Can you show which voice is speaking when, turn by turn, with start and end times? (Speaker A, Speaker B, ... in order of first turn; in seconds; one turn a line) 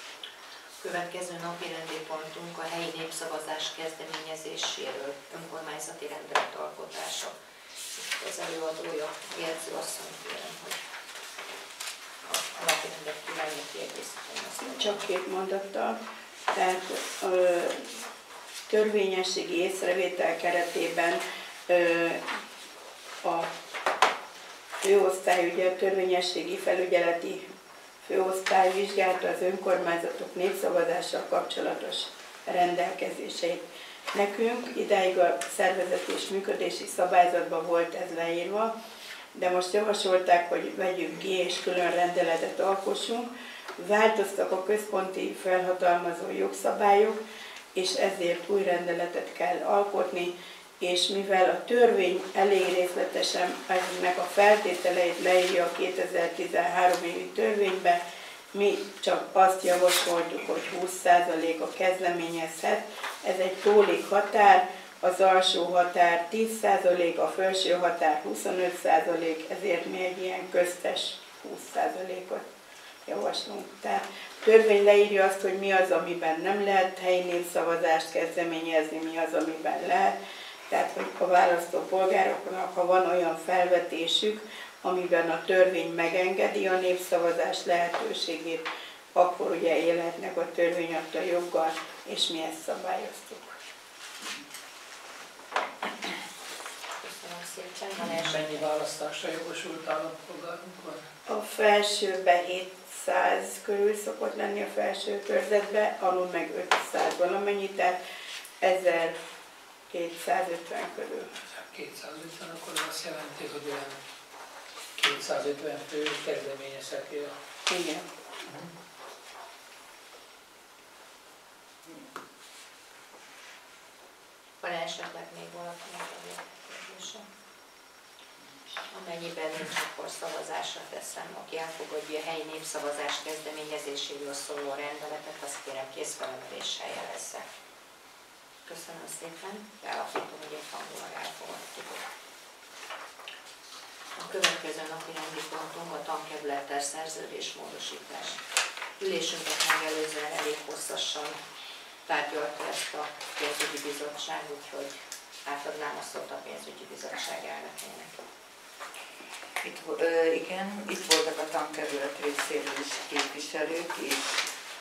Speaker A: 0.8-7.3
Speaker A: 8.0-10.8
Speaker A: 12.2-15.0
Speaker B: 14.6-16.0
Speaker B: 16.5-17.9
Speaker B: 18.7-22.2
Speaker B: 23.2-23.5
Speaker B: 24.8-27.4
Speaker B: 28.0-38.7
Speaker B: 39.3-47.2
Speaker B: 47.7-58.0
Speaker B: 58.5-72.4
Speaker B: 73.0-80.1
Speaker B: 80.7-93.5
Speaker A: 97.0-98.7
Speaker C: 98.0-101.1
Speaker B: 101.3-108.0
Speaker B: 108.6-109.2
Speaker B: 109.9-111.3
Speaker C: 111.5-114.0
Speaker C: 115.0-117.3
Speaker B: 117.7-118.0
Speaker A: 124.6-127.2
Speaker A: 128.9-137.4
Speaker A: 138.7-142.0
Speaker A: 144.2-148.4
Speaker A: 149.0-151.4
Speaker A: 152.1-158.2
Speaker D: 159.6-164.5